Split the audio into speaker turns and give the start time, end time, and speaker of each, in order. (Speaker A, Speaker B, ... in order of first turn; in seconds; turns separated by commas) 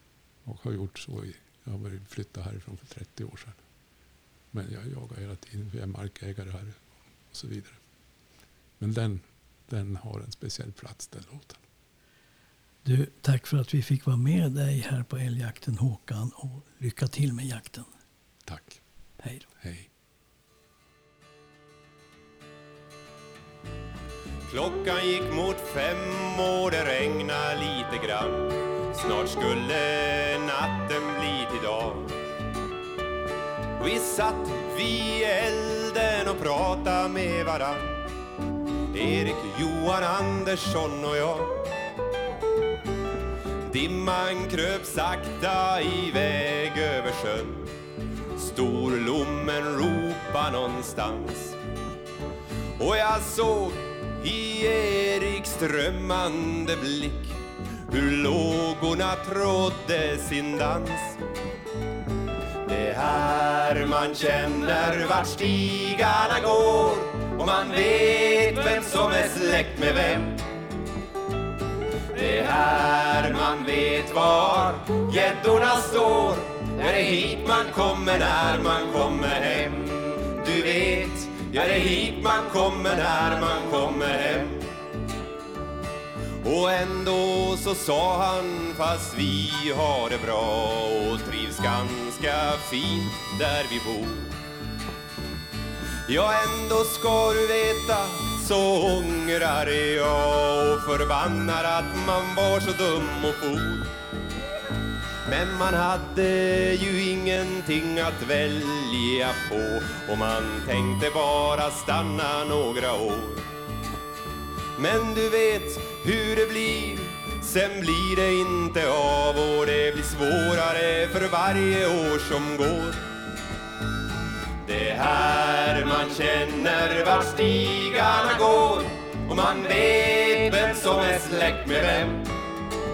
Speaker A: 0.4-3.6, Speaker A: 4.5-7.8, Speaker A: 8.8-11.6, Speaker B: 12.8-17.9, Speaker A: 18.4-18.8, Speaker B: 19.2-19.5, Speaker A: 19.6-19.9, Speaker C: 24.4-32.1, Speaker C: 33.8-38.0, Speaker C: 38.9-41.6, Speaker C: 43.6-47.7, Speaker C: 48.4-51.6, Speaker C: 52.8-61.2, Speaker C: 62.6-70.5, Speaker C: 72.1-84.7, Speaker C: 86.4-94.4, Speaker C: 96.0-103.9, Speaker C: 105.2-113.4, Speaker C: 114.7-123.0, Speaker C: 124.6-132.3